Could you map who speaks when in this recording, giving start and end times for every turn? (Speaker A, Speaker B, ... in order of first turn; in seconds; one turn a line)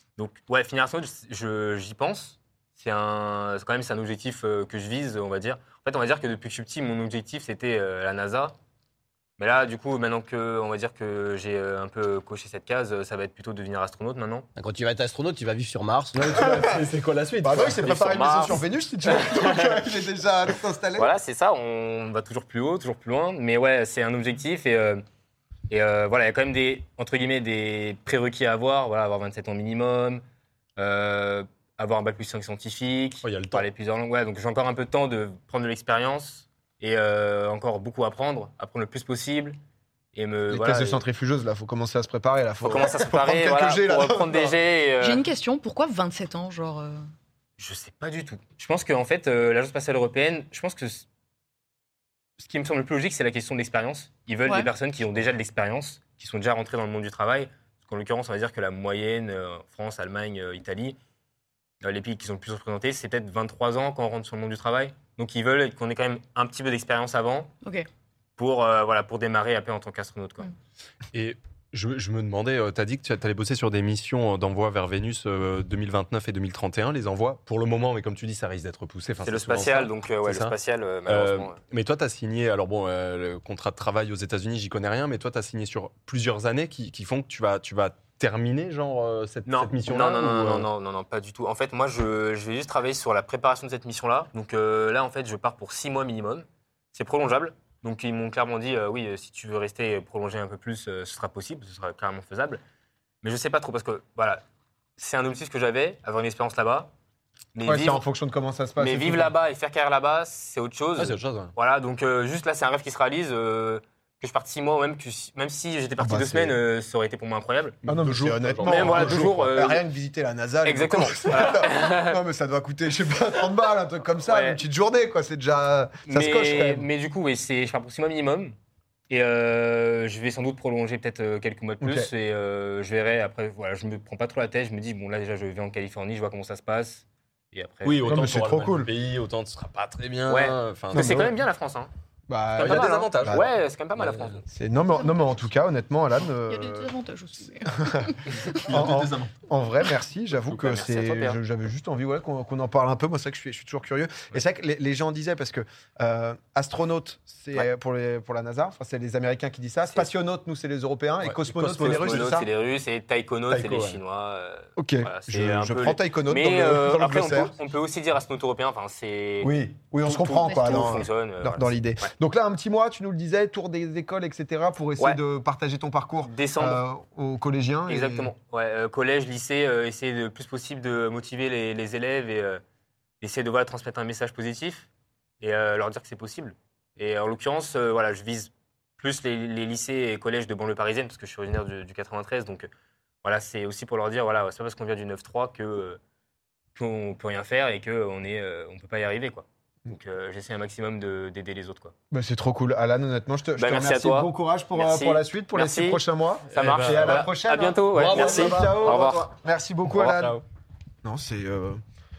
Speaker A: 0.2-8.5
Speaker A: 9.4-14.5
Speaker B: 14.6-16.5
Speaker C: 16.1-18.2
Speaker D: 16.4-16.7
Speaker D: 17.4-21.1
Speaker A: 17.8-19.8
Speaker A: 20.9-25.0
Speaker A: 25.7-30.2
Speaker A: 30.8-39.6
Speaker C: 33.2-33.7
Speaker A: 40.1-41.0
Speaker D: 40.5-44.5
Speaker A: 42.6-45.2
Speaker E: 45.0-47.0
Speaker A: 47.6-51.0
Speaker A: 52.4-61.0
Speaker E: 54.5-54.7
Speaker A: 61.8-67.5
Speaker A: 68.4-70.5
Speaker C: 71.1-80.5
Speaker A: 79.2-81.6
Speaker C: 81.0-90.7
Speaker A: 89.5-102.6
Speaker A: 103.2-104.4
Speaker A: 105.0-106.9
Speaker A: 107.5-108.0
Speaker D: 107.6-109.3
Speaker A: 108.8-117.8
Speaker C: 111.0-111.5
Speaker D: 116.0-116.6
Speaker C: 117.8-119.3
Speaker D: 117.8-126.9
Speaker A: 118.6-119.8
Speaker A: 120.6-122.2
Speaker A: 124.2-124.6
Speaker A: 126.0-128.5
Speaker A: 129.1-138.3
Speaker D: 131.8-132.1
Speaker C: 137.8-141.3
Speaker D: 138.1-138.9
Speaker A: 140.3-141.9
Speaker D: 140.9-141.3
Speaker D: 142.3-143.4
Speaker C: 142.6-143.5
Speaker A: 142.6-144.5
Speaker D: 144.5-146.9
Speaker E: 146.5-148.7
Speaker D: 147.7-162.5
Speaker B: 148.6-149.3
Speaker A: 150.5-151.4
Speaker A: 159.8-160.1
Speaker C: 161.2-162.3
Speaker A: 161.8-169.5
Speaker C: 163.5-164.0
Speaker D: 164.8-167.5
Speaker D: 169.4-178.3
Speaker A: 170.0-172.1
Speaker E: 170.6-170.9
Speaker A: 176.2-176.8
Speaker A: 177.9-182.6
Speaker A: 183.2-184.9
Speaker A: 185.4-192.7
Speaker A: 193.2-196.0
Speaker A: 196.8-201.9
Speaker D: 202.1-210.4
Speaker A: 203.6-209.3
Speaker C: 206.5-207.3
Speaker B: 207.9-209.1
Speaker B: 209.9-210.4
Speaker D: 211.0-211.8